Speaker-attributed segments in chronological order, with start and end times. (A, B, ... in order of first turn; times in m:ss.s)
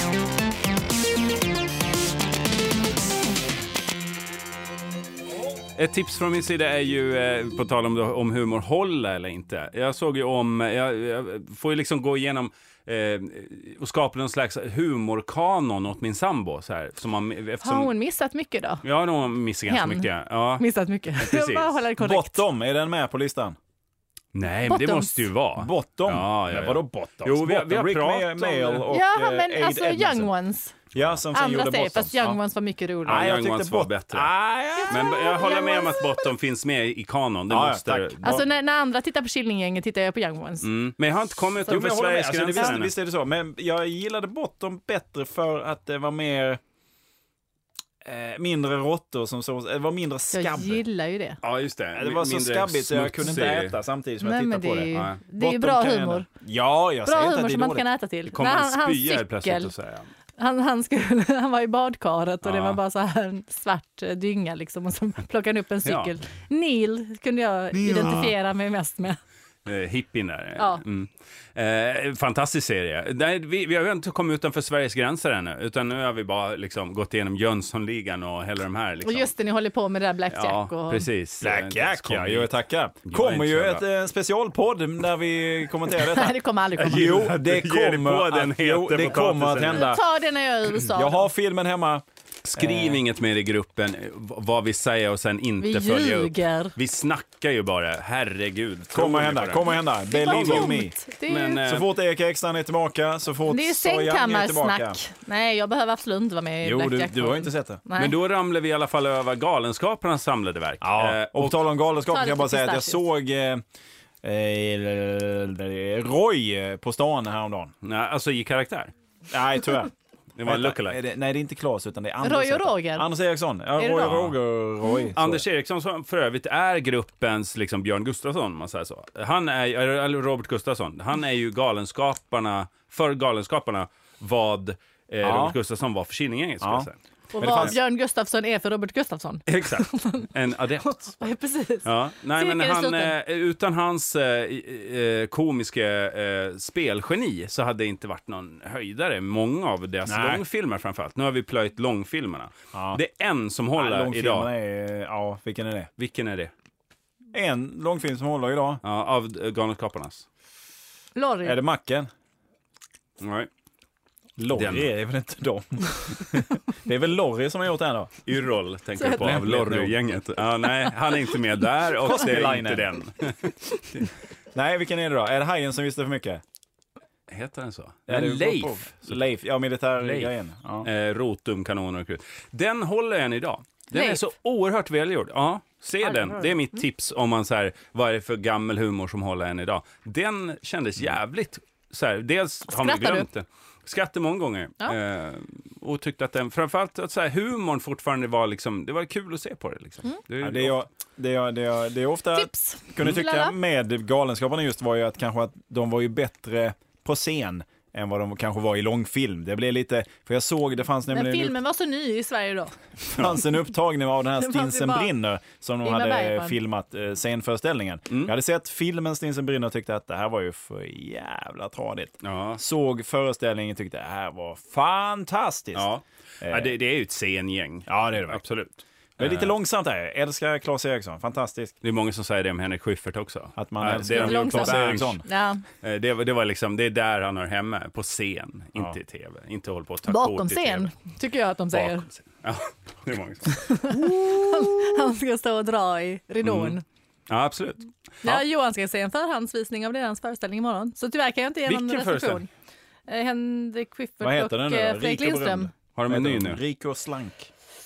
0:05.7-0:17.9 A
0:17.6-0:18.8 B
0:18.8-0:20.6 A
0:19.7-0:22.4 B
0:21.2-0:21.8 A
0:22.0-0:23.6 C
0:24.3-0:28.9 A
0:24.6-0:25.3 B
0:25.6-0:30.3 C
0:28.9-0:30.8 B
0:30.9-0:32.4 C
0:31.3-0:33.3 B
0:33.0-0:34.3 A
0:33.0-0:35.1 C
0:34.8-0:36.3 B
0:34.9-0:38.4 A
0:37.5-0:38.4 C
0:38.2-0:40.7 B
0:40.6-0:42.9 A
0:41.6-0:46.6 C
0:48.0-0:50.8 C
0:50.3-0:51.4 B
0:51.4-0:53.8 A
0:51.9-0:57.8 C
0:54.2-0:56.3 B
0:54.9-0:55.2 A
0:57.0-0:59.7 B
0:58.3-1:00.1 A
1:00.4-1:09.2 B
1:02.4-1:02.8 A
1:05.8-1:06.1 A
1:07.7-1:08.3 C
1:09.6-1:19.3 A
1:19.0-1:21.1 B
1:20.3-1:22.5 A
1:21.4-1:30.0 C
1:23.0-1:23.8 A
1:26.0-1:27.2 B
1:26.8-1:29.9 A
1:29.7-1:31.3 B
1:30.9-1:32.0 C
1:32.4-1:41.9 A
1:32.6-1:33.0 C
1:35.6-1:36.7 B
1:38.9-1:40.9 C
1:40.1-1:41.6 B
1:41.6-1:45.0 C
1:43.5-1:48.1 B
1:46.6-1:47.8 C
1:48.0-1:51.6 A
1:50.8-1:53.6 C
1:52.1-1:53.0 B
1:54.2-1:57.7 C
1:57.8-1:58.9 A
1:59.3-1:59.9 C
2:00.4-2:01.0 A
2:00.4-2:05.4 C
2:02.2-2:03.1 B
2:03.8-2:04.2 B
2:04.0-2:04.4 A
2:05.1-2:17.7 A
2:15.2-2:15.6 C
2:16.6-2:17.7 C
2:17.3-2:20.3 B
2:19.5-2:21.2 A
2:20.8-2:23.1 B
2:21.8-2:34.5 A
2:30.0-2:30.4 C
2:32.7-2:33.0 C
2:33.8-2:35.9 C
2:36.0-2:36.5 A
2:37.3-2:38.8 C
2:38.8-2:40.2 A
2:41.2-2:41.6 B
2:41.4-2:42.1 C
2:43.2-2:43.5 A
2:44.4-2:48.1 C
2:44.5-2:44.9 A
2:48.2-2:54.0 A
2:49.0-2:49.3 B
2:49.1-2:50.0 C
2:52.0-2:52.9 C
2:54.5-2:56.4 C
2:57.3-2:59.1 A
2:58.1-3:00.9 C
3:00.0-3:00.3 A
3:00.8-3:20.8 A
3:03.9-3:04.2 B
3:06.0-3:06.5 B
3:12.7-3:13.3 B
3:20.4-3:31.6 C
3:22.3-3:23.5 B
3:31.1-3:32.8 B
3:33.1-3:45.9 C
3:34.4-3:35.1 B
3:35.8-3:36.6 B
3:42.2-3:42.6 A
3:45.7-3:49.5 A
3:46.4-3:46.7 C
3:47.9-3:48.4 C
3:49.2-3:51.7 C
3:51.8-3:55.2 A
3:53.6-3:55.2 C
3:54.1-3:55.6 B
3:55.8-4:00.9 A
4:00.1-4:02.1 B
4:01.7-4:03.9 A
4:03.5-4:06.8 B
4:06.4-4:06.8 A
4:07.3-4:08.4 A
4:08.2-4:12.5 B
4:11.7-4:12.4 A
4:13.1-4:15.7 B
4:14.2-4:17.5 C
4:16.0-4:16.6 A